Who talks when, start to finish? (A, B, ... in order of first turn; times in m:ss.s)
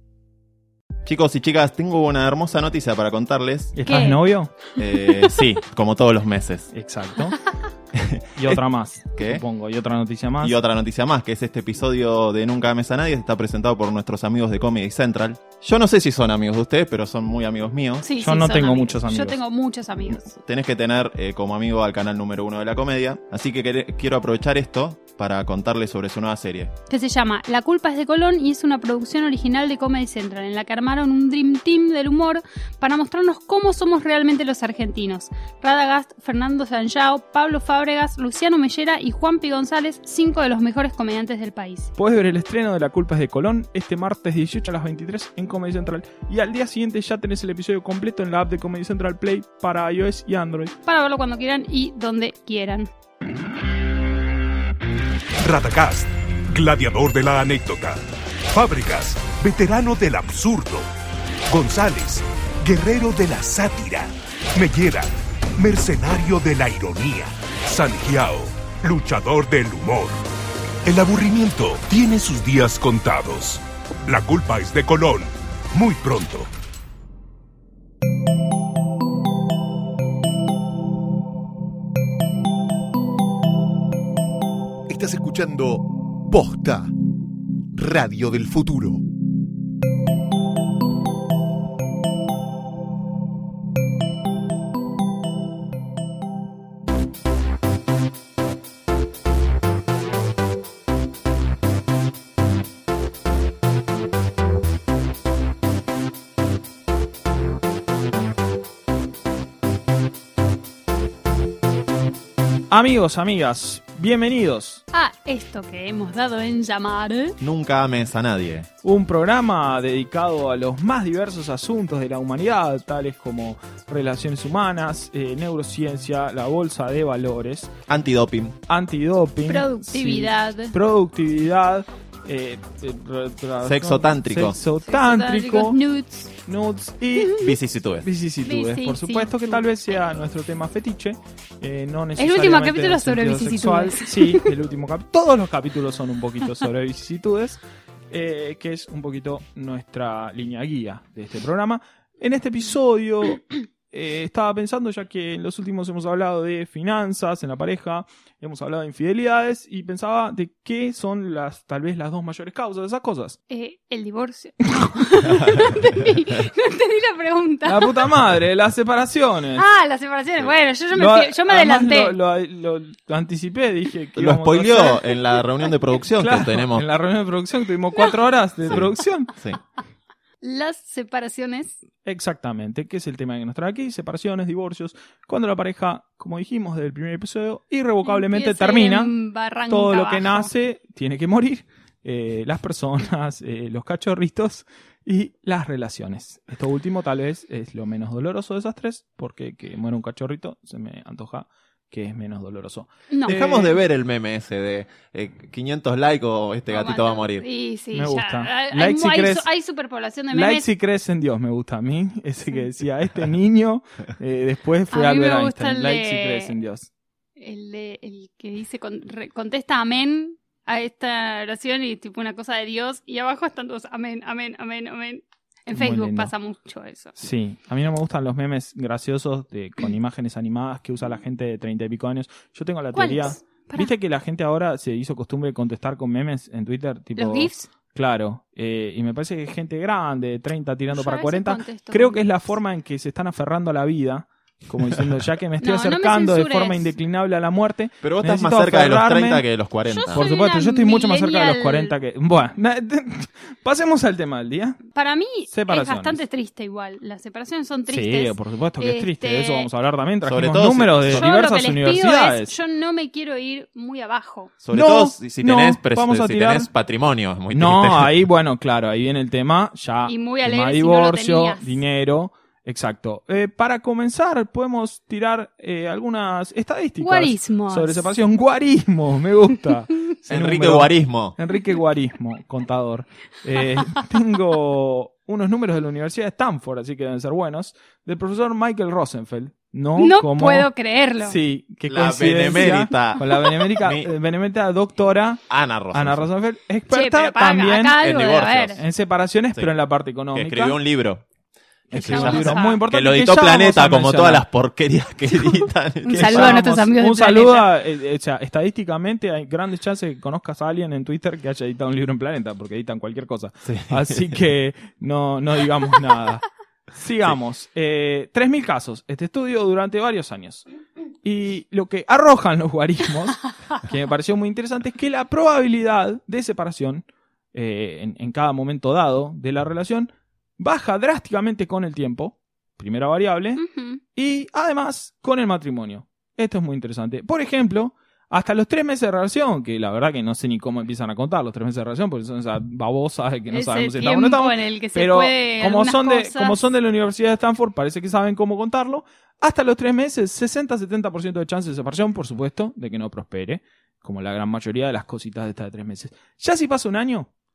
0:01.0-0:03.8 A
0:03.8-0:04.5 B
0:03.8-0:05.3 C
0:04.8-0:06.7 A
0:06.7-0:07.4 B
0:07.9-0:08.6 A
0:08.4-0:10.6 B
0:09.2-0:09.4 A
0:10.4-0:18.1 A
0:18.0-0:20.3 C
0:18.2-0:19.4 B
0:20.3-0:26.7 A
0:26.9-0:41.9 C
0:42.0-0:50.7 B
0:50.9-0:52.9 C
0:55.4-0:58.0 D
0:58.5-1:00.9 D
1:01.5-1:10.2 D
1:10.9-1:16.5 D
1:24.9-1:26.9 E
1:27.7-1:29.0 E
1:52.7-1:54.8 B
1:54.9-1:57.4 C
1:57.4-1:58.7 A
1:58.8-2:07.7 B
2:07.9-2:08.6 A
2:08.7-2:15.8 B
2:09.5-2:10.8 C
2:13.6-2:14.6 A
2:14.9-2:16.3 C
2:16.5-2:17.4 B
2:17.2-2:17.6 C
2:17.4-2:18.1 A
2:18.0-2:27.6 B
2:18.4-2:19.6 C
2:22.2-2:24.5 C
2:28.1-2:43.4 B
2:43.5-2:48.1 C
2:45.3-2:46.1 A
2:47.7-2:49.7 B
2:49.6-2:52.2 C
2:50.9-2:55.0 B
2:54.2-2:56.9 A
2:56.2-2:59.3 B
2:58.7-2:59.6 A
3:00.4-3:01.8 C
3:02.0-3:09.1 B
3:08.0-3:10.5 C
3:09.7-3:23.7 B
3:23.1-3:23.5 C
3:23.3-3:27.5 A
3:26.7-3:30.7 C
3:27.9-3:29.5 B
3:30.3-3:36.9 B
3:34.9-3:36.6 C
3:37.4-3:47.2 C
3:45.7-3:46.3 B
3:47.2-4:09.5 B
3:53.0-3:53.9 C
3:57.2-3:57.7 C
4:01.0-4:02.2 C
4:05.6-4:06.9 C
4:08.0-4:10.3 A
4:09.9-4:11.9 C
4:10.1-4:14.8 B
4:15.0-4:19.7 C
4:15.5-4:16.2 B
4:17.9-4:22.5 B
4:20.2-4:21.3 A
4:21.1-4:24.5 C
4:24.6-4:28.2 A
4:24.7-4:26.7 B
4:27.5-4:50.7 B
4:30.1-4:31.8 C
4:37.0-4:38.1 C
4:40.3-4:41.4 A
4:50.0-4:51.4 C
4:51.2-4:58.0 B
4:51.9-4:54.1 A
4:55.5-4:56.3 A
4:56.9-4:58.8 C
4:58.0-4:58.8 A
4:58.8-5:00.8 B
5:00.3-5:01.2 A
5:01.9-5:04.4 B
5:01.9-5:06.8 A
5:02.0-5:02.8 C
5:05.4-5:07.7 C
5:06.2-5:20.7 B
5:13.6-5:14.3 A
5:21.2-5:33.6 B
5:33.6-5:34.0 C
5:34.2-5:57.3 B
5:43.5-5:46.6 C